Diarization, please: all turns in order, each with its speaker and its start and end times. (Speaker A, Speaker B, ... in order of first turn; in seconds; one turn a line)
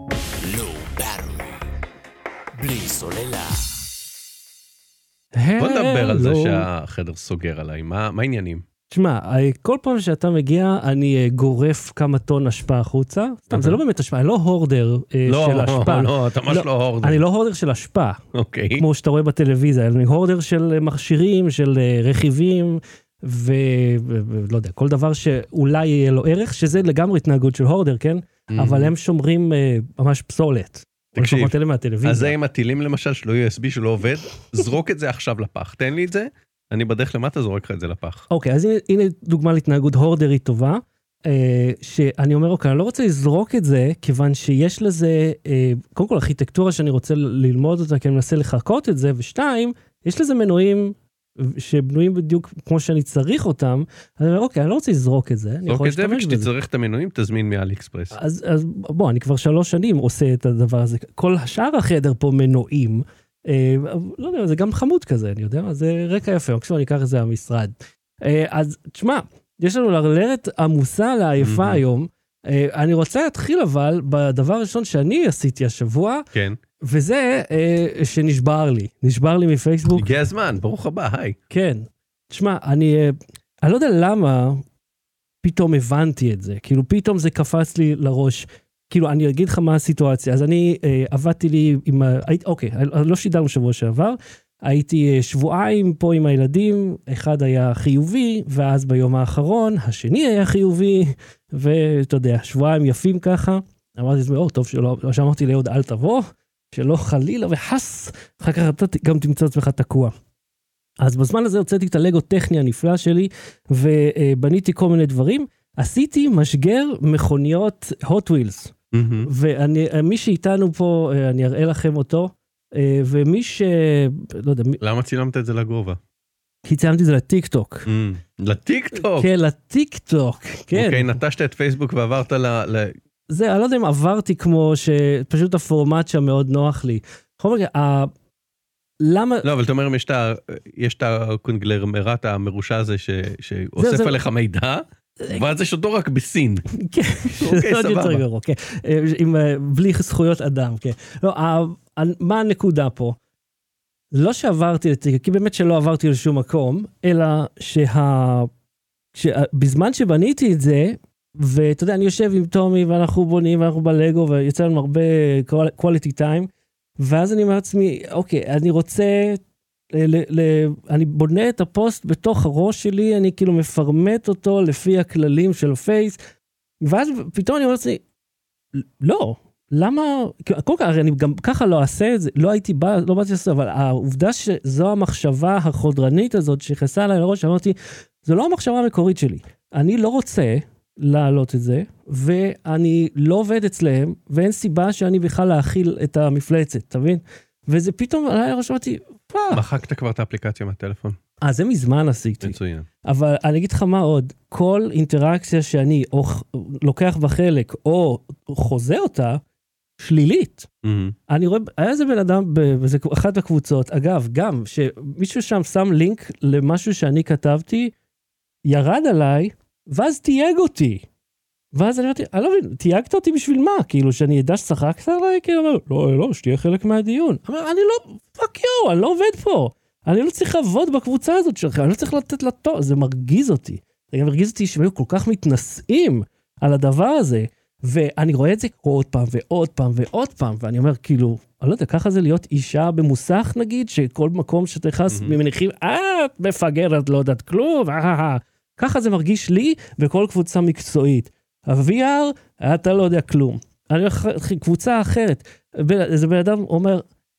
Speaker A: 0.4-1.7
Speaker A: 2.6-3.7
Speaker B: 5.3-6.7
Speaker C: 5.6-8.6
Speaker B: 8.9-18.2
Speaker C: 13.5-13.8
Speaker C: 15.2-17.2
Speaker C: 18.3-18.8
Speaker B: 18.7-32.4
Speaker C: 28.5-28.9
Speaker C: 31.1-38.2
Speaker B: 38.3-56.5
Speaker C: 55.7-58.1
Speaker B: 58.1-76.2
Speaker C: 71.4-71.8
Speaker C: 76.3-76.6
Speaker B: 76.8-80.1
Speaker C: 79.9-81.4
Speaker B: 81.5-84.6
Speaker B: 85.4-110.1
Speaker B: 111.0-124.8
Speaker C: 118.9-119.3
Speaker C: 124.8-126.0
Speaker B: 126.6-127.9
Speaker C: 127.8-129.3
Speaker B: 128.9-131.2
Speaker C: 130.7-132.9
Speaker B: 133.3-138.1
Speaker B: 139.0-139.5
Speaker C: 139.4-146.7
Speaker B: 143.8-144.2
Speaker B: 146.7-153.2
Speaker C: 147.3-148.2
Speaker B: 154.1-158.5
Speaker B: 159.1-169.4
Speaker B: 169.9-176.2
Speaker B: 176.8-178.0
Speaker B: 178.7-199.6
Speaker C: 199.5-201.2
Speaker B: 201.4-209.4
Speaker C: 202.4-202.9
Speaker B: 210.0-210.7
Speaker C: 210.8-211.2
Speaker B: 211.3-217.9
Speaker B: 218.6-221.0
Speaker B: 221.7-257.0
Speaker C: 245.1-245.4